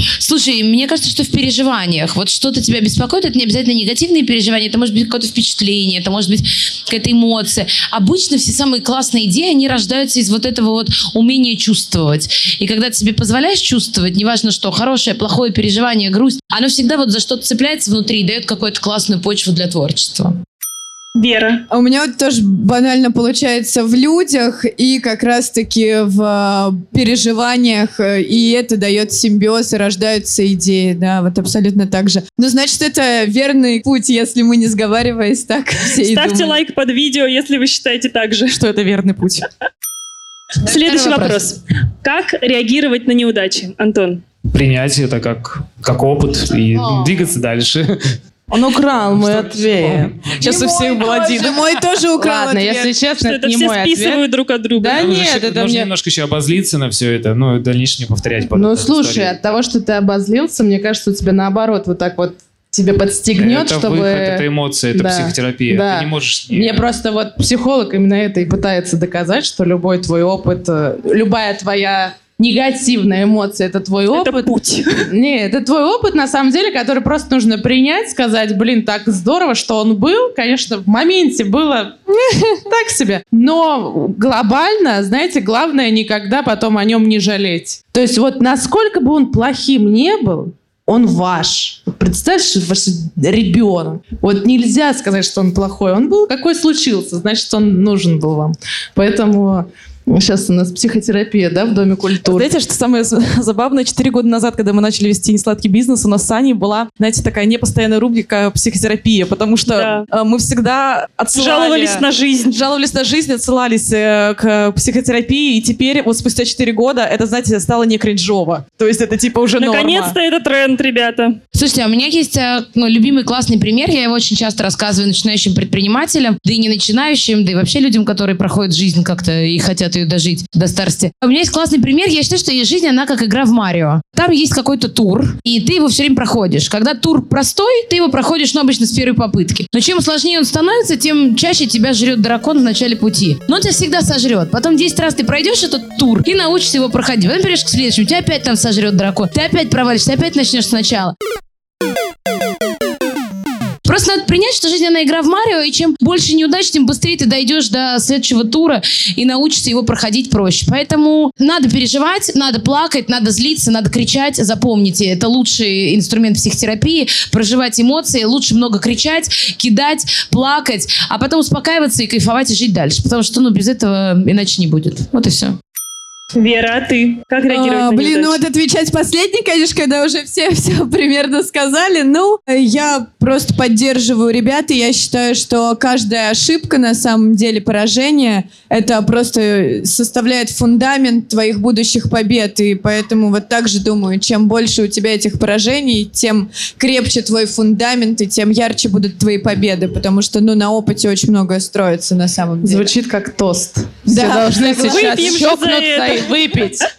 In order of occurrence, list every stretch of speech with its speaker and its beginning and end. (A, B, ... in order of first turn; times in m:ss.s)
0:00.2-0:20.3 A
0:21.1-0:21.6 B
0:21.7-0:36.6 C
0:36.0-0:38.6 B
0:38.5-0:39.4 D
0:40.6-0:44.2 B
0:40.7-0:41.4 A
0:44.5-0:48.2 E
0:48.5-0:50.2 F
0:49.2-0:50.4 E
0:50.4-0:51.6 D
0:50.4-0:52.9 C
0:52.2-0:54.2 F
0:53.2-0:55.0 B
0:54.8-0:55.9 F
0:54.9-0:59.3 E
0:58.5-1:14.5 F
1:03.4-1:06.8 E
1:14.1-1:15.0 B
1:15.0-1:42.5 F
1:42.3-2:00.1 D
1:49.7-1:50.0 B
1:51.3-1:52.6 B
1:59.6-2:01.4 B
2:01.5-2:31.1 A
2:33.8-2:55.6 A
2:56.3-2:58.4 B
2:57.5-3:22.9 C
3:22.6-3:26.9 F
3:24.1-3:25.4 C
3:24.8-3:26.3 B